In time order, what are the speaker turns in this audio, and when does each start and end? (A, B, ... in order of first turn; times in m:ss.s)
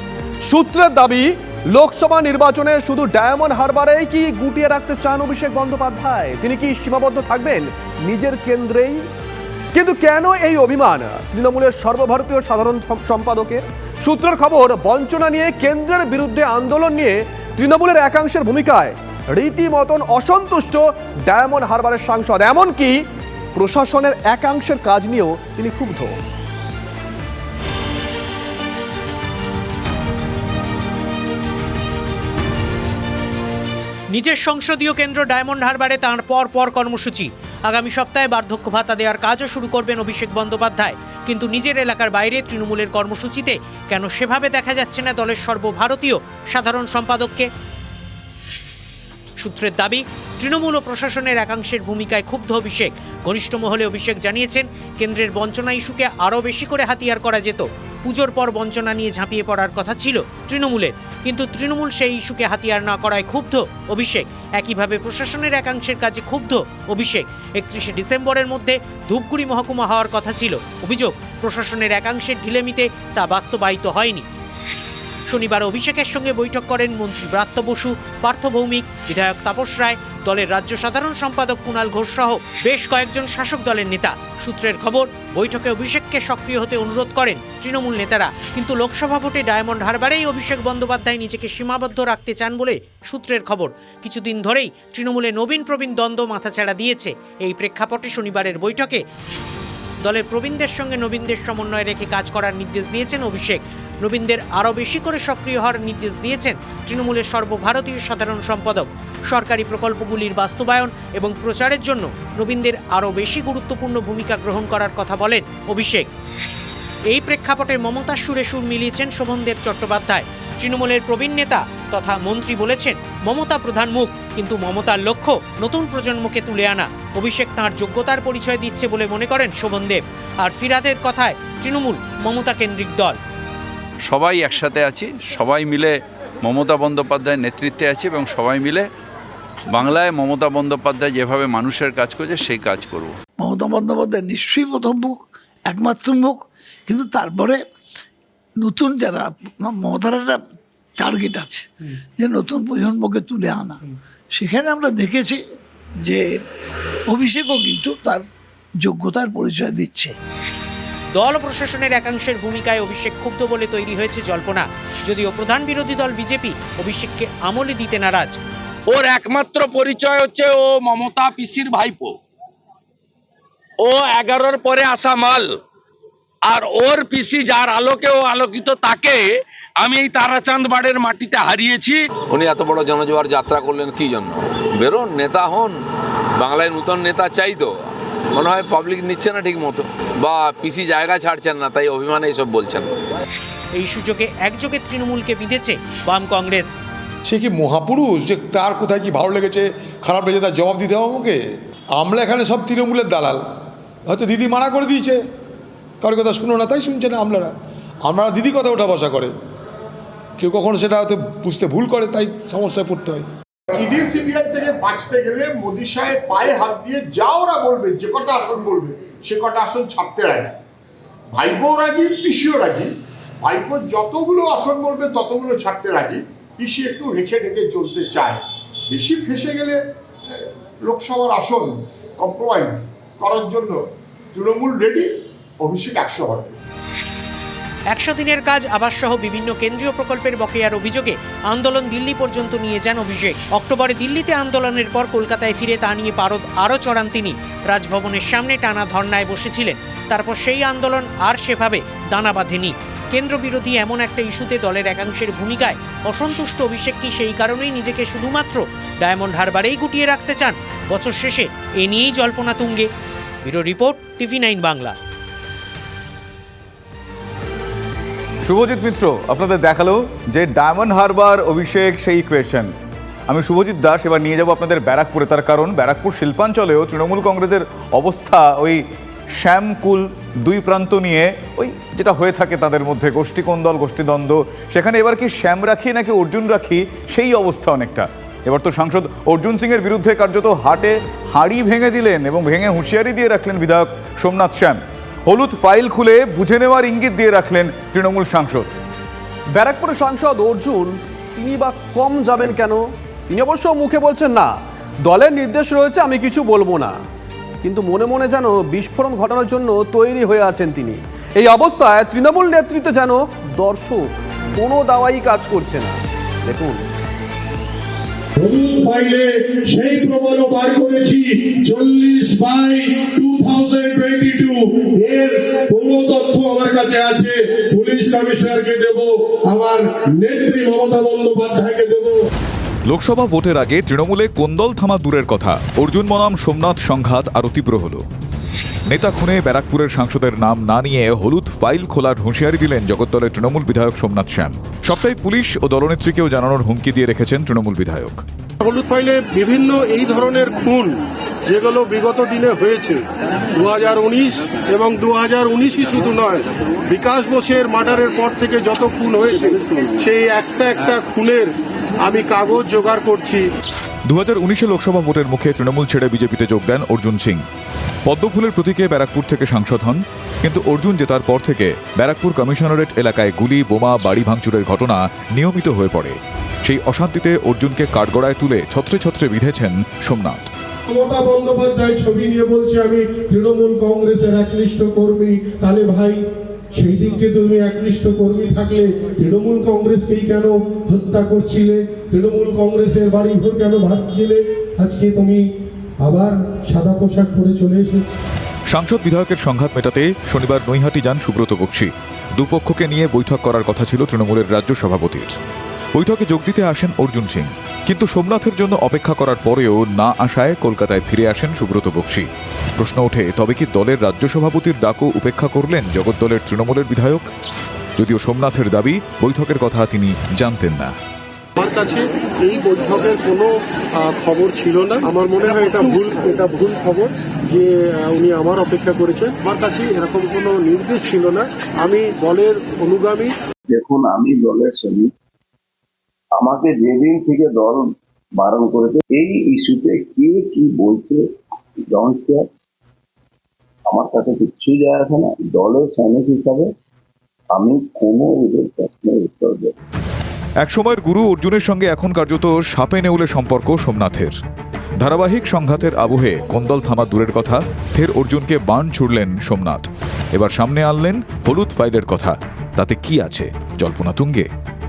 0:00.5-0:09.0 A
0:09.7-0:23.0 A
0:23.5-0:26.1 A
0:34.1-0:47.5 B
0:49.4-1:14.2 B
1:15.3-1:39.0 B
1:40.0-1:56.1 B
1:57.1-2:13.2 B
2:14.0-2:18.8 C
2:19.7-2:23.1 C
2:23.4-2:27.6 D
2:28.6-2:30.4 D
2:31.0-2:35.4 D
2:36.0-2:36.4 D
2:37.1-2:38.2 D
2:38.8-2:40.2 D
2:41.1-2:48.4 B
2:48.9-2:52.2 E
2:53.8-2:55.5 E
2:56.4-3:02.1 E
3:02.3-3:05.7 F
3:06.4-3:07.7 F
3:08.3-3:12.9 F
3:13.8-3:16.8 B
3:17.2-3:21.4 G
3:22.0-3:23.4 G
3:24.1-3:25.2 G
3:26.0-3:27.5 G
3:28.0-3:29.3 G
3:30.4-3:33.3 G
3:33.7-3:40.6 H
3:41.3-3:42.9 H
3:43.4-3:49.8 H
3:50.8-3:53.8 H
3:54.3-3:55.1 H
3:55.6-3:56.6 H
3:57.9-4:22.9 B
4:23.4-4:25.0 B
4:28.5-4:32.7 I
4:33.3-4:38.8 I
4:39.4-4:58.6 I
4:59.5-5:04.5 A
5:05.1-5:06.9 A
5:07.6-5:16.8 A
5:18.4-5:32.2 J
5:32.9-5:38.0 I
5:38.9-5:48.2 I
5:48.6-5:50.9 J
5:51.5-5:53.0 J
5:53.5-6:03.4 J
6:04.1-6:07.4 I
6:08.0-6:20.5 I
6:20.9-6:26.2 J
6:26.7-6:35.4 J
6:36.0-6:38.1 J
6:38.7-6:45.3 I
6:46.0-6:57.2 I
6:58.0-7:00.9 I
7:01.6-7:03.5 J
7:04.0-7:13.3 J
7:13.7-7:15.1 K
7:16.4-7:17.8 K
7:18.4-7:21.2 K
7:21.9-7:22.4 K
7:23.9-7:26.7 K
7:27.5-7:29.7 K
7:30.6-7:34.4 I
7:35.0-7:44.5 I